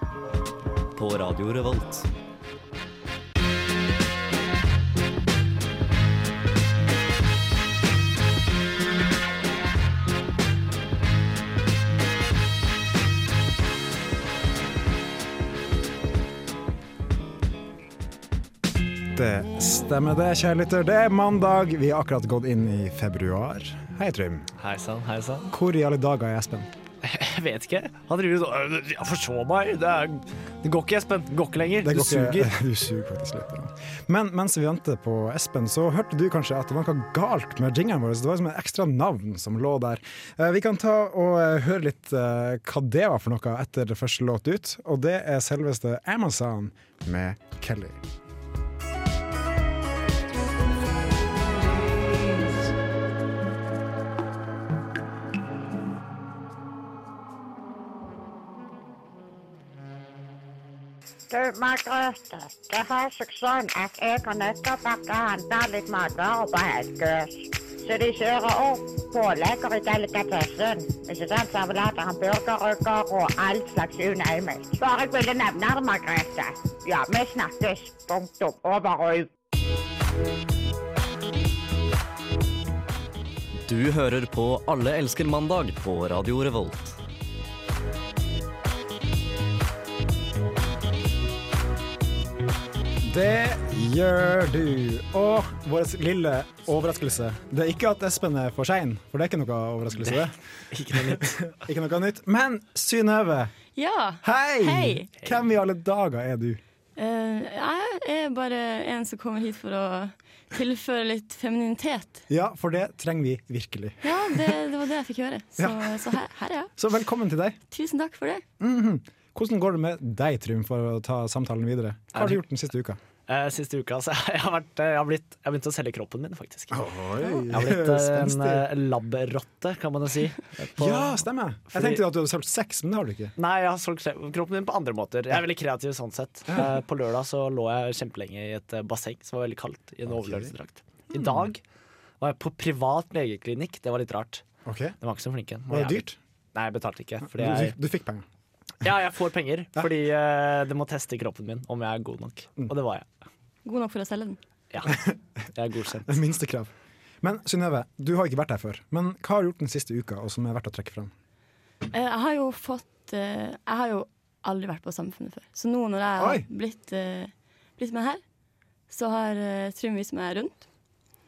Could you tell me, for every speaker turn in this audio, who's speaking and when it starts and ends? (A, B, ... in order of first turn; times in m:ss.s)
0:00.9-0:02.1 A
0:19.1-0:24.5 B
0:24.6-0:25.5 C
0:25.5-0:26.7 B
0:27.0-0:32.5 C
0:31.8-0:48.0 B
1:01.3-1:19.3 D
1:23.6-1:27.0 A
1:33.0-1:40.4 B
1:40.0-1:41.3 C
1:40.9-1:43.5 B
1:43.8-1:45.1 E
1:44.2-1:46.6 B
1:47.0-1:52.2 E
1:52.3-1:54.5 B
1:54.0-1:56.8 E
1:55.6-1:56.2 B
1:56.8-1:57.6 B
1:57.7-1:58.4 E
1:58.6-2:03.0 B
2:02.1-2:02.4 C
2:03.3-2:06.9 C
2:06.7-2:08.7 B
2:07.5-2:12.0 C
2:10.7-2:13.3 B
2:13.4-2:21.6 C
2:20.1-2:20.5 B
2:21.1-2:21.5 B
2:22.2-2:24.4 C
2:24.6-2:25.0 B
2:25.0-2:27.7 C
2:25.7-2:26.2 B
2:27.2-2:28.2 B
2:28.8-2:33.1 C
2:33.6-2:34.4 E
2:34.7-2:35.0 C
2:34.8-2:35.1 B
2:35.5-2:36.1 C
2:36.1-2:41.1 B
2:41.9-2:48.2 E
2:46.2-2:46.4 B
2:48.9-2:50.7 E